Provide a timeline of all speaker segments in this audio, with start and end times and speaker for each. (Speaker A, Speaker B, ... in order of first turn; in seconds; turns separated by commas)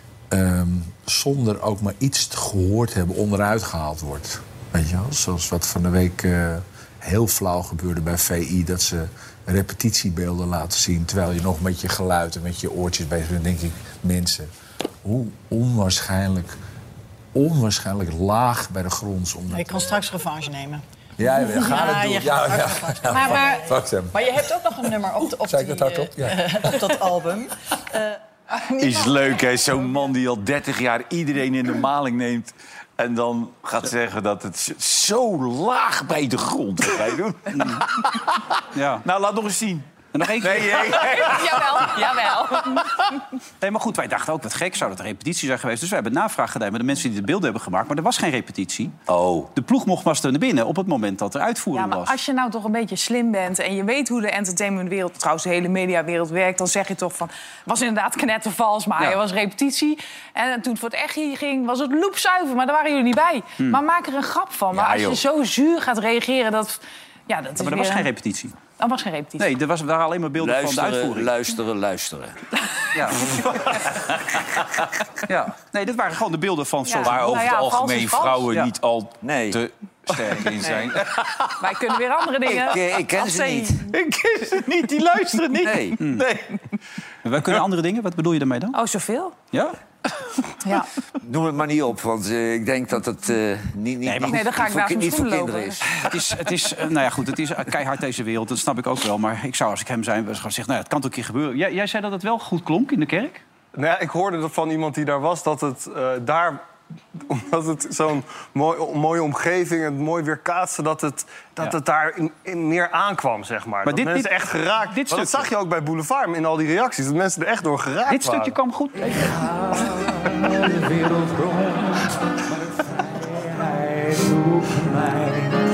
Speaker A: 0.3-14.5, Speaker A: 15.0-16.6, Speaker A: 17.3-20.0, Speaker B: 19.5-20.8, Speaker A: 21.2-24.4, Speaker B: 21.4-29.3, Speaker A: 25.4-27.0, Speaker C: 28.8-42.0, Speaker D: 37.5-37.9, Speaker D: 38.7-39.0, Speaker D: 40.1-41.2, Speaker E: 41.0-43.0, Speaker D: 43.6-49.0, Speaker C: 49.1-49.5, Speaker D: 49.5-52.1, Speaker E: 51.7-68.1, Speaker C: 64.8-65.2, Speaker D: 67.6-68.6, Speaker E: 68.8-69.5, Speaker D: 69.4-71.3, Speaker F: 70.4-72.4, Speaker D: 72.9-73.5, Speaker D: 75.3-77.5, Speaker E: 76.9-78.5, Speaker C: 77.0-81.7, Speaker F: 79.2-79.6, Speaker E: 81.6-83.9, Speaker F: 82.5-83.8, Speaker C: 83.9-86.5, Speaker F: 85.6-86.0, Speaker D: 85.9-86.3, Speaker D: 87.2-88.8, Speaker E: 88.7-89.3, Speaker D: 89.5-89.8, Speaker E: 90.6-90.9, Speaker F: 91.2-96.1, Speaker D: 94.0-94.5, Speaker E: 94.3-95.8, Speaker D: 96.0-103.4, Speaker G: 103.8-106.7, Speaker G: 107.2-118.5, Speaker D: 113.9-115.5, Speaker D: 118.1-119.5